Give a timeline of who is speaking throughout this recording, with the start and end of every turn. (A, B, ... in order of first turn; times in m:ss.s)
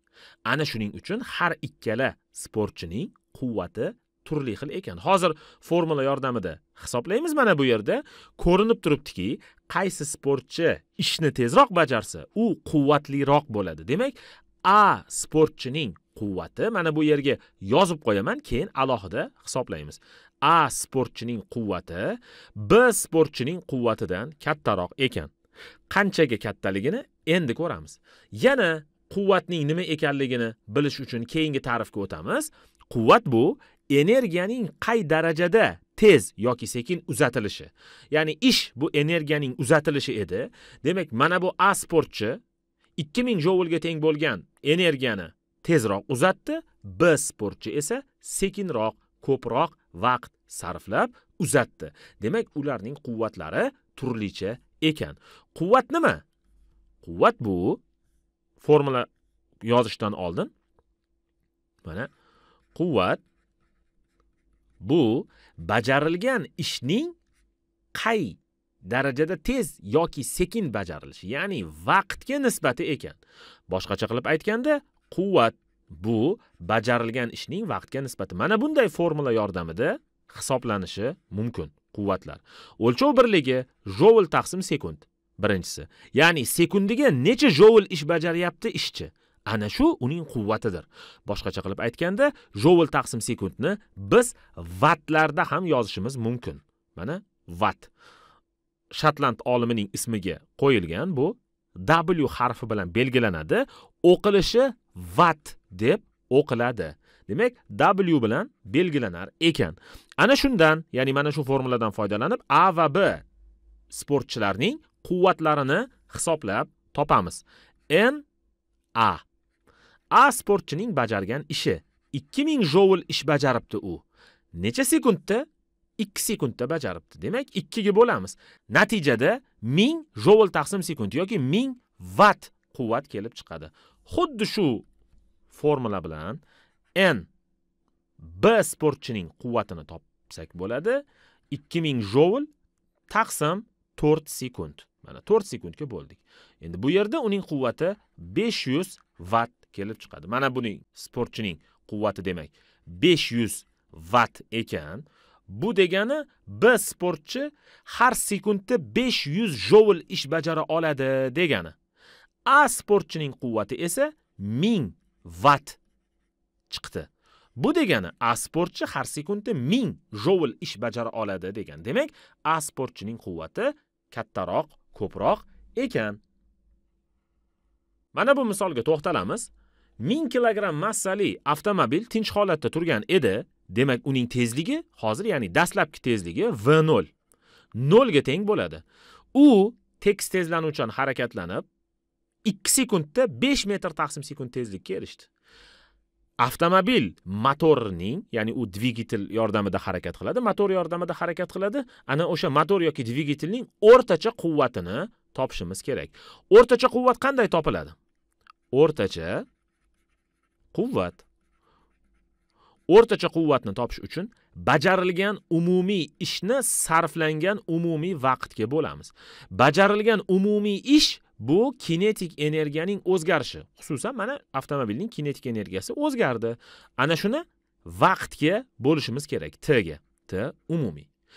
0:00.5-0:25.3 A
0:25.9-0:42.4 A
0:43.0-0:56.2 A
0:57.0-0:57.8 A
0:58.6-0:59.1 A
0:59.6-1:00.5 A
1:01.8-1:02.1 A
1:02.8-1:03.2 A
1:04.8-1:07.2 A
1:07.9-1:13.2 A
1:13.7-1:37.9 A
1:38.9-1:53.2 A
1:53.9-1:58.2 A
1:59.0-1:59.2 A
2:00.1-2:05.5 A
2:06.0-2:14.9 A
2:15.5-2:16.4 A
2:17.0-2:17.3 A
2:18.2-2:22.5 A
2:23.1-2:41.8 A
2:42.5-2:45.8 A
2:46.7-2:56.2 A
2:58.1-3:07.1 A
3:07.8-3:11.7 A
3:12.4-3:15.3 A
3:16.4-3:28.0 A
3:28.7-3:29.5 A
3:30.7-3:31.2 A
3:32.9-3:51.1 A